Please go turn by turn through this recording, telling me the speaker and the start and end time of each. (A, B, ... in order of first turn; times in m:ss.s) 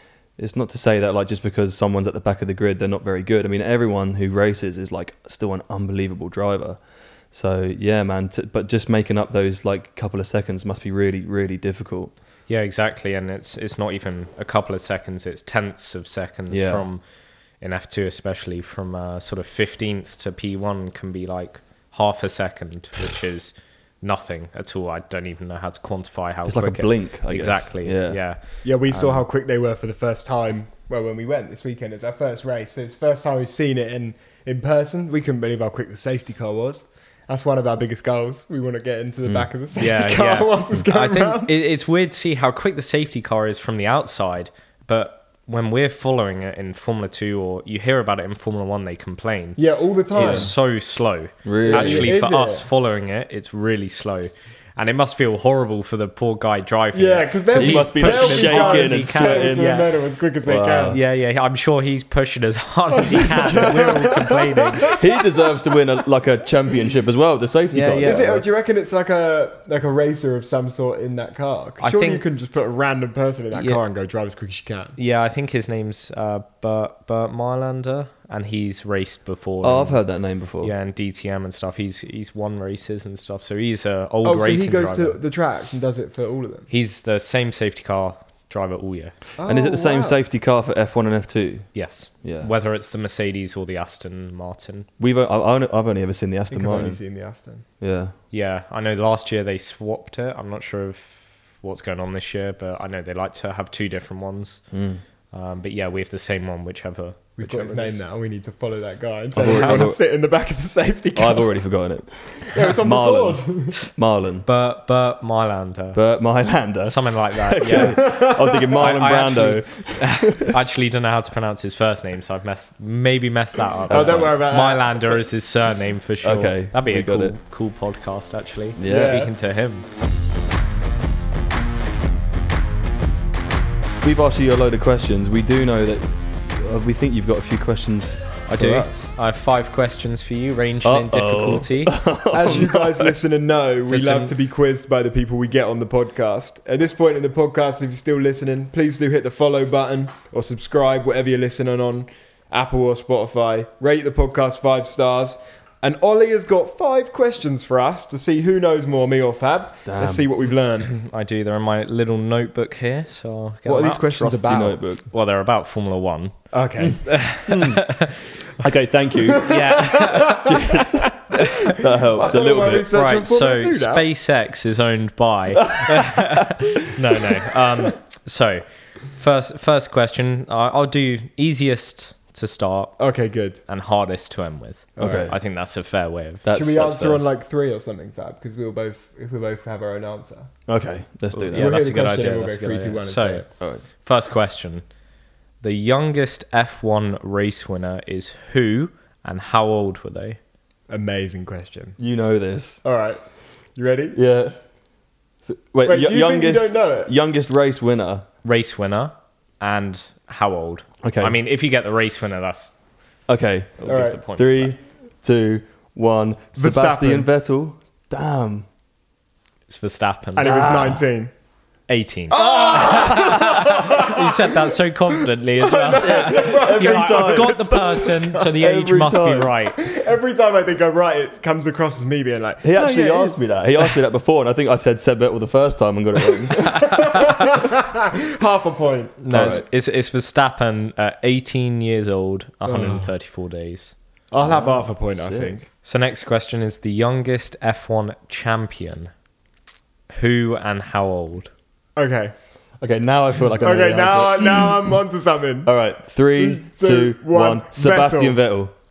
0:00.4-0:06.8 A
0:07.3-0:12.1 A
0:12.5-0:17.0 B
0:16.5-0:16.8 A
0:17.6-0:28.4 B
0:26.4-0:29.1 A
0:28.6-0:41.6 C
0:39.8-0:49.6 B
0:49.6-0:50.5 C
0:50.1-0:59.9 B
0:50.2-0:50.5 A
0:51.4-0:52.1 A
0:51.6-0:52.6 C
0:56.9-1:01.0 C
0:57.5-0:59.8 A
1:00.4-1:01.0 A
1:00.9-1:04.9 B
1:03.1-1:05.0 C
1:04.9-1:08.4 A
1:07.7-1:08.4 B
1:08.0-1:15.0 C
1:11.8-1:12.2 B
1:13.5-1:13.8 B
1:15.0-1:20.0 B
1:19.6-1:20.7 A
1:20.6-1:25.2 B
1:24.2-1:26.7 C
1:26.7-1:29.2 B
1:29.4-1:30.2 C
1:29.4-1:32.5 A
1:31.7-1:34.9 B
1:35.0-1:37.0 A
1:36.5-1:37.6 C
1:37.8-1:38.1 A
1:38.3-1:44.6 B
1:44.7-1:45.0 A
1:45.3-1:48.0 B
1:47.4-1:51.6 C
1:49.4-1:50.0 A
1:49.4-1:49.9 B
1:51.1-1:54.5 A
1:52.4-1:53.8 C
1:54.4-1:56.0 B
1:55.9-2:00.5 A
1:56.8-2:09.9 B
1:57.7-1:58.7 C
2:03.9-2:04.3 A
2:03.9-2:05.2 C
2:06.2-2:07.3 A
2:08.8-2:09.2 A
2:08.9-2:09.3 C
2:14.0-2:19.1 A
2:18.5-2:22.0 B
2:20.8-2:23.1 A
2:22.3-2:40.9 C
2:23.9-2:24.3 B
2:39.8-2:40.2 A
2:40.9-2:44.5 B
2:43.6-2:44.8 C
2:44.2-2:45.0 A
2:45.0-2:46.3 B
2:46.5-2:47.2 C
2:47.0-2:48.2 B
2:47.4-2:47.9 A
2:48.6-2:52.9 A
2:49.3-2:51.1 C
2:49.4-2:50.6 B
2:51.4-2:51.7 B
2:51.8-2:54.0 C
2:52.9-3:03.0 B
2:55.7-2:56.3 A
3:03.0-3:03.6 C
3:03.6-3:06.4 B
3:05.0-3:05.4 A
3:05.0-3:05.2 C
3:06.4-3:07.2 A
3:06.5-3:10.5 C
3:10.7-3:11.8 A
3:11.4-3:13.5 C
3:11.5-3:14.8 B
3:15.6-3:20.4 B
3:20.9-3:22.0 C
3:22.0-3:22.8 A
3:22.8-3:23.2 C
3:23.7-3:24.2 C
3:24.1-3:24.6 A
3:25.4-3:28.2 A
3:25.8-3:27.1 C
3:28.4-3:32.7 B
3:31.0-3:31.4 A
3:33.3-3:38.7 A
3:33.8-3:34.7 B
3:33.8-3:34.2 C
3:36.6-3:37.3 C
3:39.7-3:40.6 B
3:40.4-3:41.3 C
3:40.4-3:41.0 A
3:41.9-3:49.8 B
3:42.3-3:44.6 C
3:42.9-3:43.3 A
3:45.6-3:48.5 C
3:46.0-3:49.5 A
3:49.7-3:53.6 C
3:52.6-3:57.0 A
3:56.5-3:59.6 C
3:56.9-3:57.3 B
3:59.2-4:03.9 B
3:59.3-3:59.6 A
4:02.7-4:03.1 C
4:04.3-4:05.6 C
4:04.4-4:05.6 A
4:05.8-4:09.1 B
4:10.1-4:11.5 B
4:12.0-4:12.3 C
4:12.8-4:14.9 A
4:13.6-4:15.7 C
4:15.6-4:18.7 A
4:16.4-4:18.4 C